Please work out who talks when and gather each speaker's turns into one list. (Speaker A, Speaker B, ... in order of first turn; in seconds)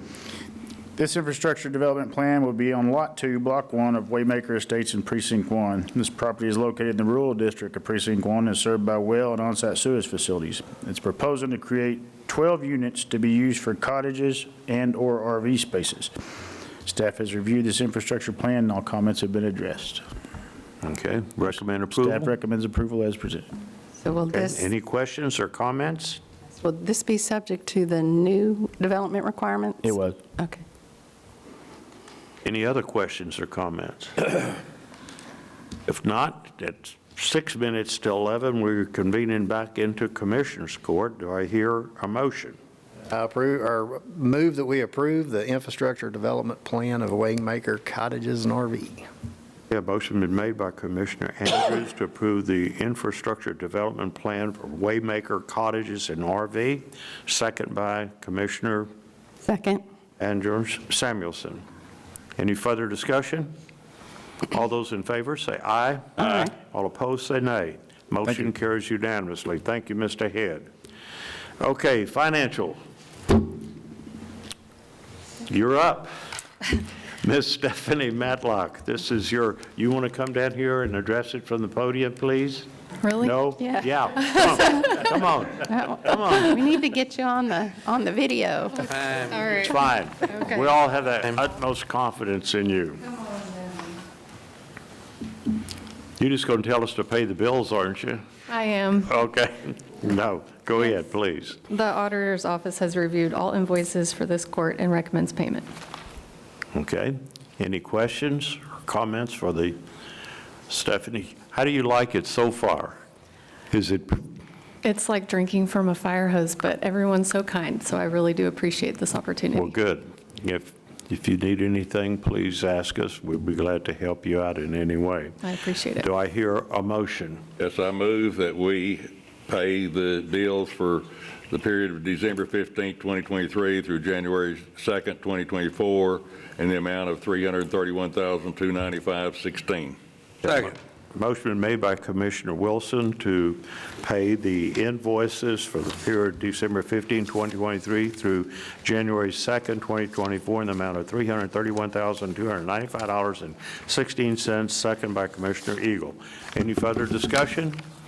Speaker A: 1.0-16.1, 16.9-20.0, 21.9-23.5, 29.9-30.2
Speaker B: 20.8-22.3, 24.3-26.2, 32.4-34.6, 35.9-42.6, 49.7-58.9, 60.2-61.6, 62.4-63.5, 64.5-70.7, 71.6-72.8, 75.5-76.1, 77.2-82.7, 83.2-86.5, 89.5-93.2, 96.2-98.2, 99.1-101.6, 106.7-109.8, 110.7-113.0, 113.7-114.2, 119.5-125.4, 126.0-127.5, 140.4-157.8
Speaker C: 24.0-24.6, 26.6-30.6, 59.5-59.8, 83.6-83.9, 85.6-89.1
Speaker D: 43.1-49.1
Speaker E: 83.0-83.4, 89.0-89.8, 90.4-90.7, 98.5-99.1, 101.7-105.7, 114.8-119.8, 125.4-126.0
Speaker F: 127.6-140.7